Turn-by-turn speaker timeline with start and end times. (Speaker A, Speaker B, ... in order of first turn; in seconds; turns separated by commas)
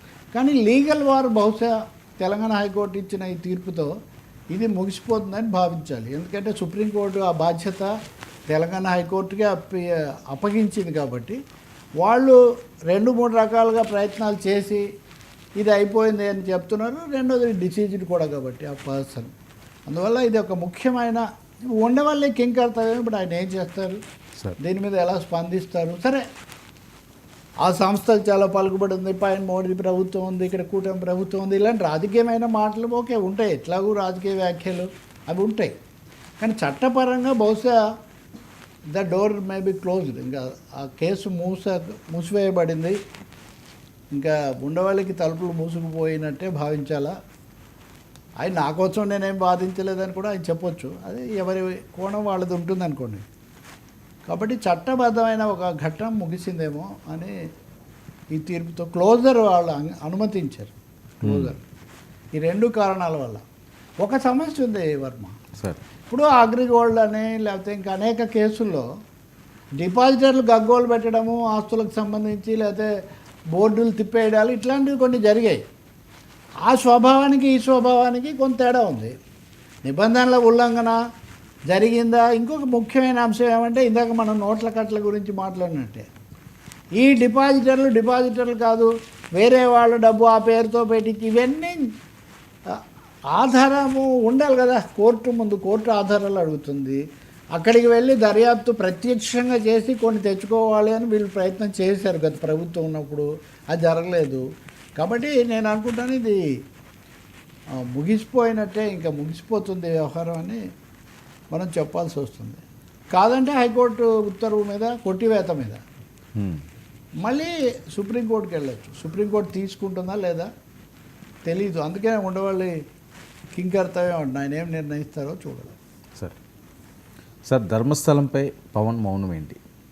Speaker A: 0.3-3.9, Speaker A: 4.5-7.9, Speaker A: 8.5-11.4, Speaker A: 12.0-12.4, Speaker A: 12.9-14.8, Speaker A: 15.6-19.3, Speaker A: 19.9-24.0, Speaker A: 24.6-26.2, Speaker A: 27.6-35.7, Speaker A: 36.4-37.8, Speaker A: 38.9-43.0, Speaker A: 44.1-47.1, Speaker A: 48.4-53.2, Speaker A: 54.3-57.3, Speaker A: 58.3-61.6, Speaker B: 61.2-61.5, Speaker A: 62.4-63.4, Speaker A: 64.0-65.3, Speaker A: 66.1-68.9, Speaker A: 69.8-72.9, Speaker A: 73.5-75.6, Speaker A: 76.6-79.1, Speaker A: 79.8-81.0, Speaker A: 81.7-86.1, Speaker A: 87.0-91.8, Speaker A: 93.3-97.0, Speaker A: 97.5-104.4, Speaker A: 105.0-106.4, Speaker A: 107.8-110.6, Speaker A: 111.5-112.6, Speaker A: 113.1-115.8, Speaker B: 116.3-116.6, Speaker A: 117.2-120.5, Speaker A: 121.5-122.7, Speaker A: 123.5-125.8, Speaker B: 127.5-129.6